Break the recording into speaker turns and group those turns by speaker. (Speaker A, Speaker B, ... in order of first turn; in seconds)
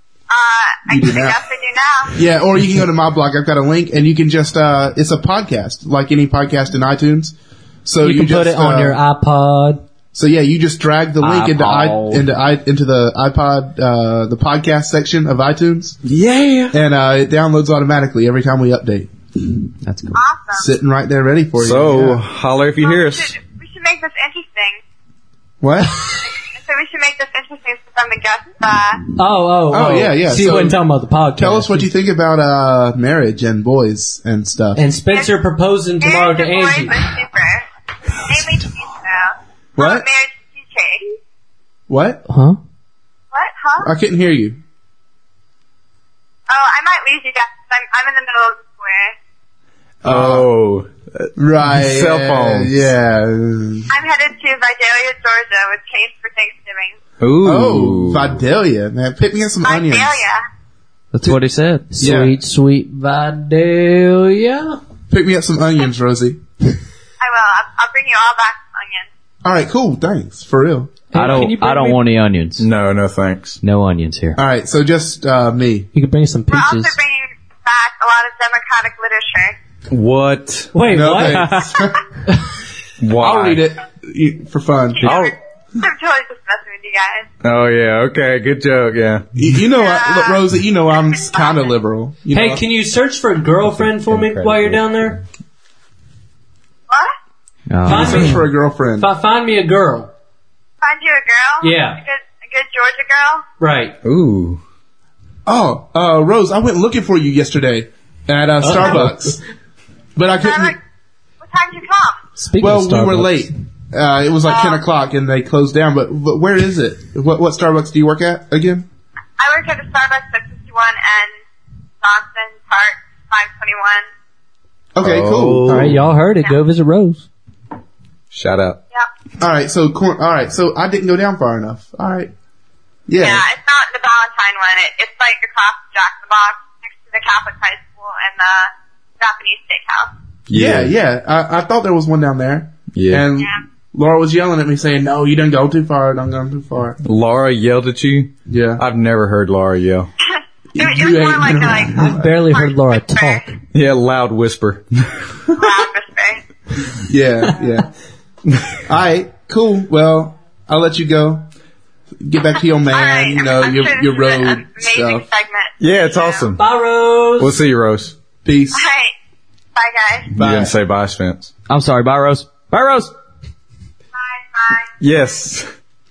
Speaker A: 0.3-2.2, 20.1-20.6, 22.8-24.8, 26.2-29.0, 35.1-35.4, 36.0-37.6, 38.2-41.1, 43.3-43.9, 46.5-49.1, 53.9-56.9, 59.6-60.4, 67.2-69.1, 76.5-79.5, 85.0-87.3, 89.8-90.4, 100.8-103.4, 110.4-110.8, 111.4-112.2, 114.5-114.8, 119.4-121.4, 122.0-124.1, 133.2-140.1, 150.3-153.5, 155.5-156.4, 162.9-166.5, 168.8-169.1, 169.8-170.3, 174.1-174.9
Speaker B: 0.9-1.4, 2.1-9.0, 10.1-16.0, 16.7-19.1, 20.5-22.2, 25.6-26.1, 29.7-30.8, 31.4-34.8, 39.8-40.0, 41.9-42.2, 43.8-44.6, 50.0-50.5, 51.4-53.9, 57.4-60.2, 62.0-62.3, 65.1-66.4, 69.4-70.9, 74.3-75.9, 80.9-82.0, 83.2-85.1, 89.3-92.6, 97.9-99.1, 105.5-109.4, 110.2-110.7, 112.6-118.8, 124.9-126.0, 129.4-132.3, 133.1-133.4, 140.5-147.0, 148.5-148.8, 150.7-152.3, 157.0-157.9, 158.8-161.4, 162.2-165.2, 168.4-168.8, 170.4-170.7
Speaker C: 8.0-9.8, 29.2-31.9, 34.7-37.1, 42.3-42.6, 61.9-64.8, 71.1-72.0, 75.9-77.0, 80.7-81.6, 92.3-95.2, 97.8-100.1, 101.6-102.0, 103.6-104.0, 108.6-109.4, 112.4-113.5, 125.6-127.3, 151.9-153.4, 166.5-167.5
Speaker D: 11.2-12.2, 19.8-20.2, 61.1-61.9, 71.1-72.7, 73.6-74.4, 81.2-81.8, 97.7-98.2, 171.7-173.1
Speaker E: 16.0-16.8, 21.6-23.4, 50.0-52.9, 57.2-58.3, 72.6-73.6, 79.9-80.7, 83.0-83.6, 85.0-85.3, 87.4-89.2, 93.7-94.9, 104.0-104.6, 125.0-126.0, 128.3-128.8, 140.5-140.9, 142.9-143.3, 147.0-150.1, 153.7-155.3, 165.8-166.6, 167.3-168.1, 170.3-171.5, 175.0-175.7